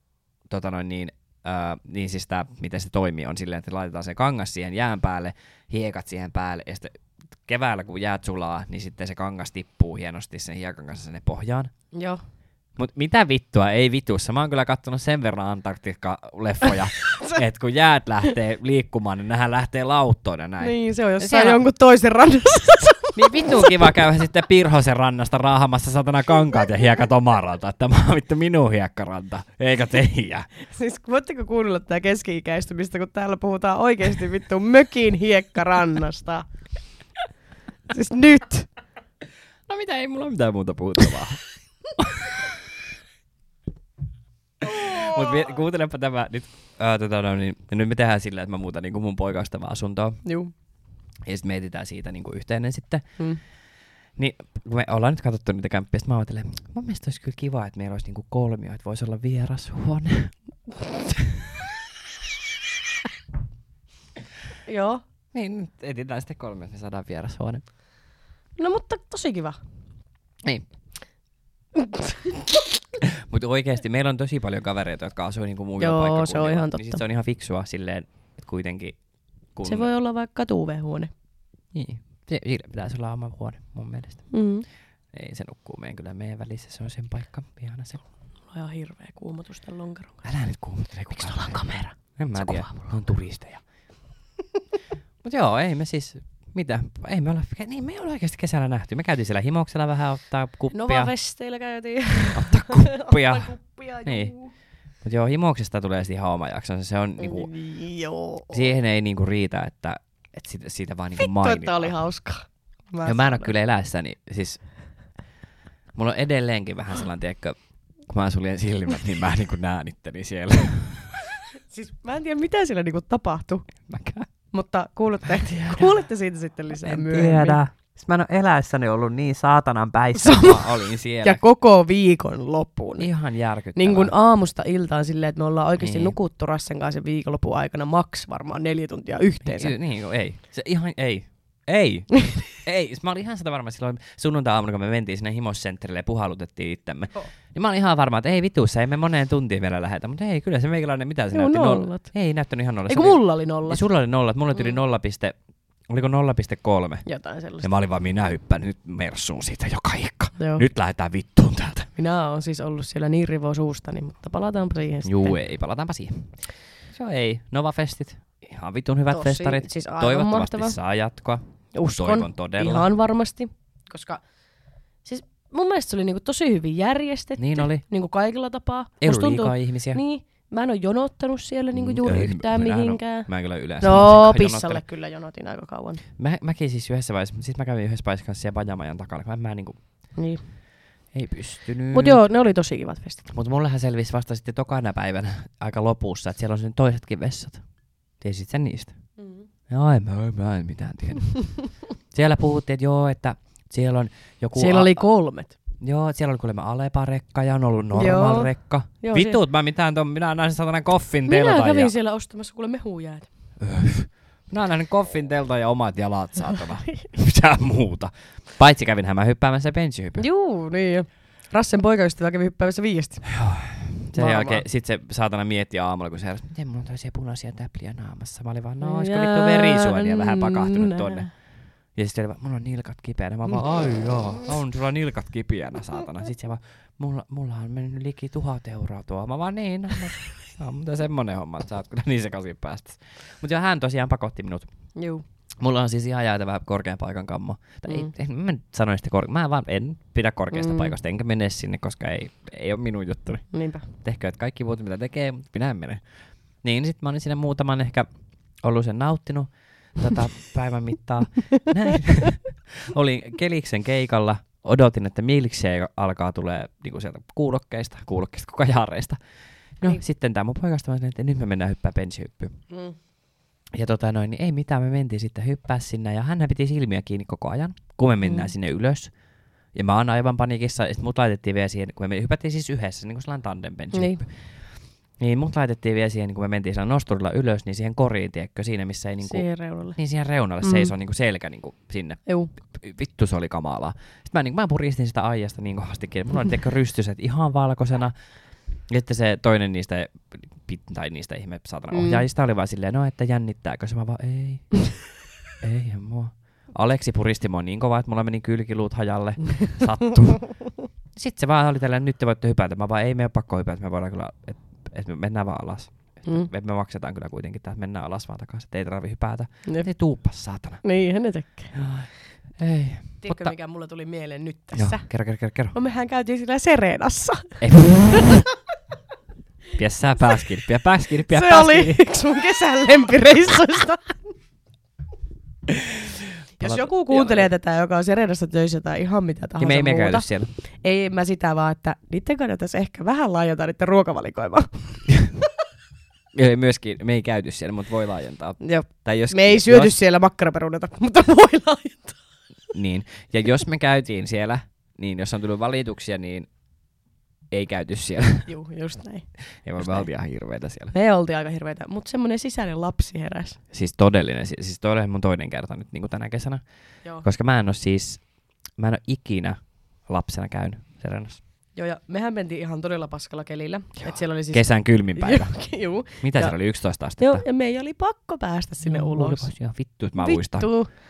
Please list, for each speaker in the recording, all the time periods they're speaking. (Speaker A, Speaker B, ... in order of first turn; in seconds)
Speaker A: 0.5-11.7, 12.8-21.6, 23.1-30.5, 39.7-41.4, 42.0-42.6, 44.6-50.2, 51.2-53.2, 54.2-60.4, 61.1-61.5, 65.3-67.6, 73.0-79.0, 79.5-79.9, 81.7-84.3, 85.1-88.0, 90.2-93.6, 95.2-101.1, 102.3-104.3, 105.0-107.5, 108.5-112.0, 113.0-114.6, 116.0-121.4, 123.9-124.3, 125.4-126.0, 126.7-131.4, 133.0-134.1, 135.8-136.2, 139.4-155.3, 155.9-157.1, 157.6-161.9, 165.0-172.9, 177.4-177.8, 179.0-180.0, 181.7-184.8, 186.2-189.8, 191.1-192.2, 193.3-197.6, 198.2-198.9, 199.7-201.6, 202.1-205.0, 205.8-211.9, 213.6-220.2, 223.3-231.4, 231.9-244.7, 245.6-256.1, 256.6-258.1, 258.6-269.2, 269.8-272.6, 273.7-279.1, 279.7-284.7, 285.2-298.1, 298.9-304.9, 305.6-320.8, 321.7-323.6, 324.8-325.8, 327.6-328.5, 329.8-332.0, 336.6-337.5, 339.6-340.5, 346.3-349.9, 352.7-356.5, 357.5-358.5, 359.6-360.9, 363.7-366.6, 367.2-368.2, 368.8-371.4, 374.1-375.6, 376.2-377.4, 378.9-380.7
Speaker B: 11.9-12.2, 20.6-23.8, 30.6-36.5, 37.9-38.7, 44.8-45.2, 50.2-50.5, 64.7-65.0, 68.6-69.6, 71.8-72.6, 75.8-77.0, 79.6-81.1, 84.3-84.7, 88.5-90.3, 91.1-92.9, 100.7-104.5, 107.2-108.6, 111.2-113.5, 121.7-123.7, 124.5-127.6, 130.2-133.1, 133.8-139.8, 151.3-152.1, 152.9-153.8, 157.1-157.7, 160.4-160.7, 162.0-165.4, 169.1-170.8, 171.7-174.2, 175.0-183.3, 183.8-186.0, 190.2-190.4, 191.9-193.2, 199.2-199.5, 204.6-205.5, 207.9-209.4, 211.3-213.3, 220.2-223.4, 224.2-224.6, 228.8-231.3, 245.0-245.2, 250.5-250.9, 253.5-253.9, 272.7-273.0, 278.2-278.5, 283.9-284.2, 289.2-290.0, 290.6-290.9, 301.9-302.2, 320.8-321.8, 323.2-325.1, 325.7-328.5, 331.3-334.3, 336.6-340.3, 340.8-345.1, 348.6-352.2, 358.5-360.1, 360.9-363.6, 371.8-376.6, 377.2-379.5, 380.2-380.9